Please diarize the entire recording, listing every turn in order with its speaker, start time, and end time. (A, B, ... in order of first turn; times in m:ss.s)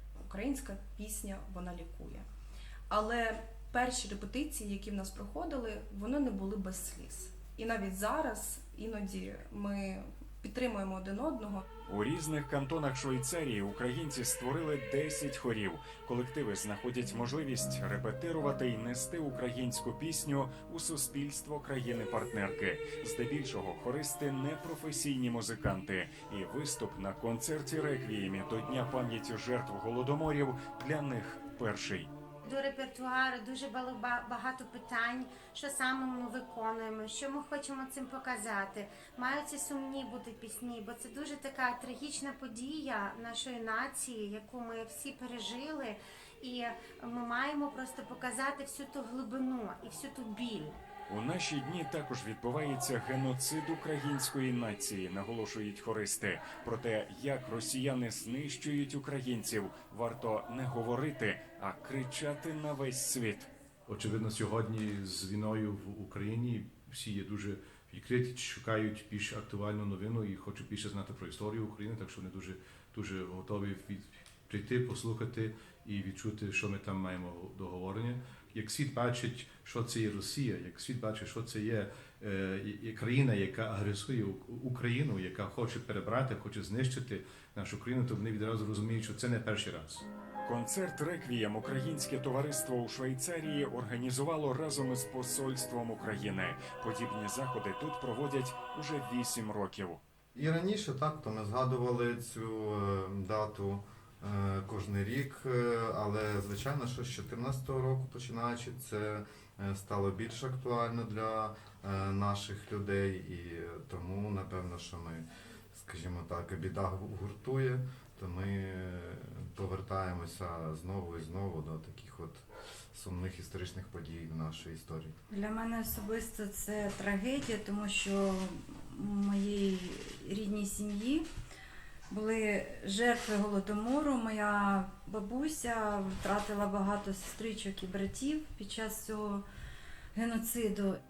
0:00.2-0:02.2 A
0:02.9-0:11.6 A
0:11.9-0:32.1 B
0:32.4-0:50.8 C
0:51.1-1:03.5 B
1:03.9-1:30.0 D
1:30.4-1:40.0 B
1:40.3-2:05.1 E
2:05.3-2:11.3 F
2:12.1-2:19.4 F
2:20.1-2:21.0 F